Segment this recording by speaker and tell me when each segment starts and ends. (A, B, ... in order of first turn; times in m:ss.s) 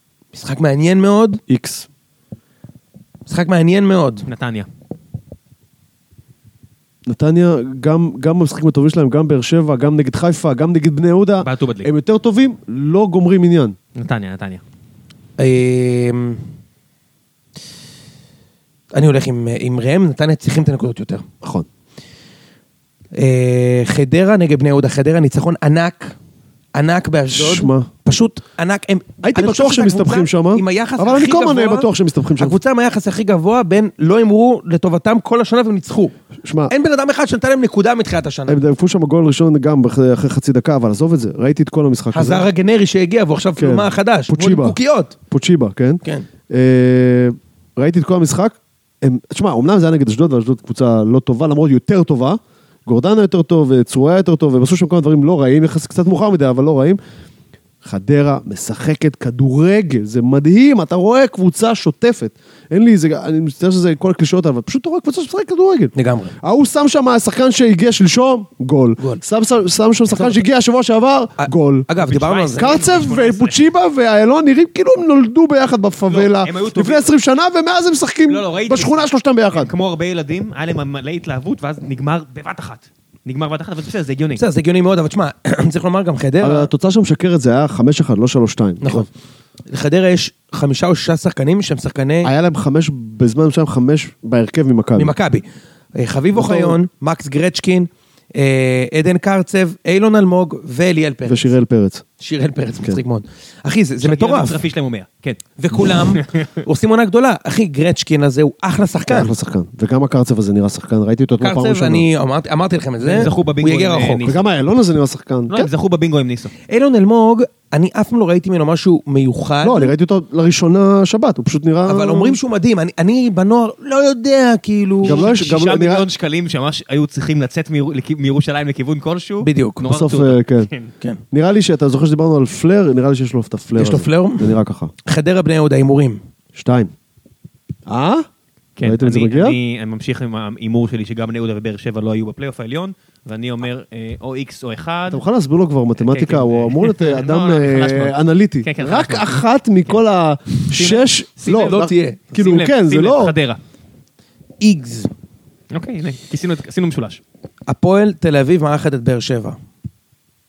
0:00.3-0:01.4 A
0:01.5-0:01.9 B
0:03.3-0:04.3 A
0:04.3-0:04.7 C
0:07.1-0:13.8 B
0:11.4-0:11.9 C
0:14.0-0:14.6 C
0:15.4-0:16.4 A
0:18.9-0:21.3 A
0:21.4-0:21.7 B
0:23.2-0:26.2 A
0:26.8-0:36.1 A
0:27.4-0:27.9 B
0:29.2-0:32.6 B
0:36.4-0:36.7 B
0:36.7-0:38.6 A
0:38.5-0:42.5 B
0:42.1-0:45.2 A
0:43.6-0:44.8 B
0:45.3-0:57.0 B
0:57.8-1:11.9 B
1:06.0-1:06.3 A
1:11.4-1:12.8 A
1:12.0-1:13.6 C
1:12.6-1:19.7 B
1:16.1-1:17.1 C
1:18.3-1:24.4 C
1:24.4-1:26.7 A
1:26.4-1:29.1 B
1:28.8-1:29.1 A
1:29.7-1:32.3 A
1:32.2-1:35.1 B
1:35.0-1:41.5 A
1:36.4-1:36.8 B
1:41.3-1:42.0 B
1:42.2-1:44.6 A
1:44.0-1:46.6 C
1:45.6-1:49.3 A
1:49.1-1:52.1 B
1:51.4-1:54.2 A
1:53.0-1:54.4 C
1:54.2-1:55.7 B
1:55.5-1:56.5 C
1:56.7-1:59.9 A
1:59.6-2:02.4 B
2:01.9-2:05.2 A
2:05.0-2:10.9 C
2:05.0-2:06.1 B
2:09.4-2:09.8 A
2:09.8-2:10.7 B
2:11.3-2:14.9 B
2:13.8-2:14.5 A
2:15.1-2:16.2 A
2:16.6-2:16.9 B
2:17.9-2:18.3 B
2:18.8-2:25.2 C
2:18.8-2:19.6 B
2:25.1-2:33.4 B
2:26.0-2:30.0 C
2:30.5-2:31.8 C
2:31.5-2:32.2 A
2:32.3-2:33.6 C
2:34.6-2:35.1 A
2:35.7-2:37.2 C
2:37.7-2:39.6 A